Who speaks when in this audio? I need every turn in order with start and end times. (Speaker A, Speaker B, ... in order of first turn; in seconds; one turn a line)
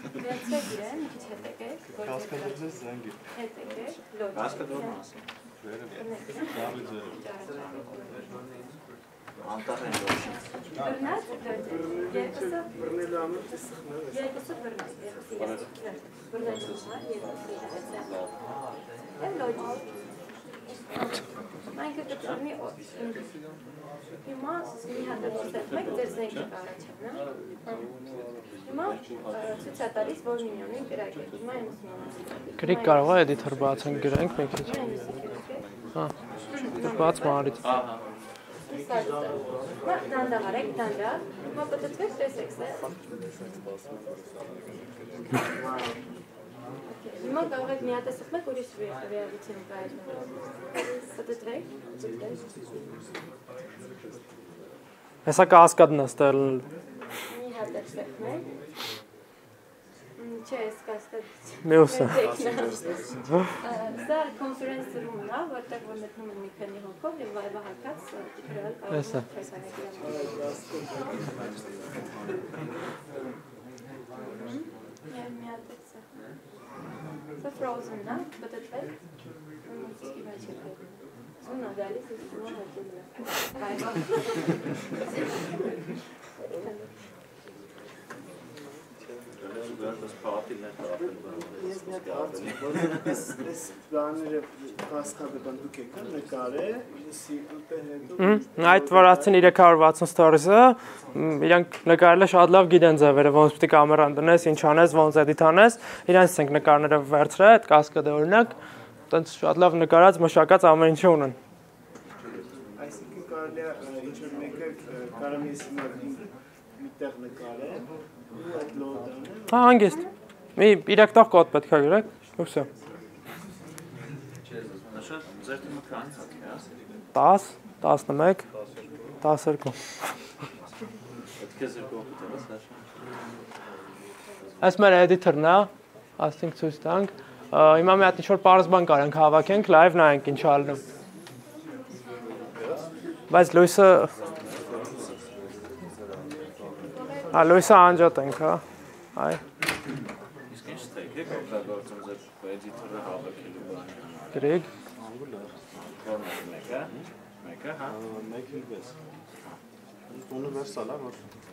Speaker A: 0.1-2.8
Speaker B: 2.0-3.2
Speaker A: 3.3-5.1
Speaker C: 4.3-5.2
Speaker B: 5.6-7.2
Speaker A: 5.9-8.3
Speaker C: 9.4-10.4
Speaker A: 10.8-12.7
Speaker D: 11.7-14.2
Speaker A: 14.1-18.1
Speaker C: 15.4-15.7
Speaker C: 16.4-16.9
Speaker C: 17.9-18.3
Speaker A: 19.2-19.9
Speaker A: 20.9-21.2
Speaker A: 21.7-23.3
Speaker C: 22.1-22.4
Speaker A: 24.2-27.8
Speaker C: 25.1-26.5
Speaker A: 28.6-33.2
Speaker C: 28.8-30.1
Speaker E: 32.6-34.7
Speaker A: 34.6-35.6
Speaker A: 36.5-37.8
Speaker E: 36.8-37.6
Speaker C: 37.6-38.0
Speaker A: 38.7-42.8
Speaker A: 46.9-52.4
Speaker E: 55.3-56.6
Speaker A: 57.3-58.5
Speaker A: 60.2-62.9
Speaker E: 61.6-62.2
Speaker B: 62.3-62.7
Speaker A: 63.6-70.4
Speaker E: 68.9-69.2
Speaker D: 70.0-71.2
Speaker A: 74.4-76.1
Speaker A: 77.4-78.9
Speaker A: 79.7-80.8
Speaker A: 81.4-84.6
Speaker C: 89.4-93.4
Speaker D: 90.9-99.5
Speaker E: 98.2-108.5
Speaker E: 109.1-111.4
Speaker D: 112.8-116.2
Speaker D: 116.8-119.5
Speaker E: 119.5-120.0
Speaker A: 119.8-120.1
Speaker E: 120.6-122.7
Speaker C: 124.9-126.7
Speaker E: 127.1-128.4
Speaker B: 128.6-129.0
Speaker E: 129.2-129.8
Speaker C: 131.4-132.9
Speaker E: 134.6-140.8
Speaker A: 142.1-142.4
Speaker E: 143.3-144.1
Speaker B: 144.7-145.0
Speaker A: 147.1-147.8
Speaker E: 147.3-148.6
Speaker C: 150.5-154.6
Speaker E: 154.3-154.7
Speaker B: 155.0-155.5
Speaker C: 155.7-156.9
Speaker C: 157.4-158.0
Speaker B: 157.8-158.9
Speaker B: 160.1-161.2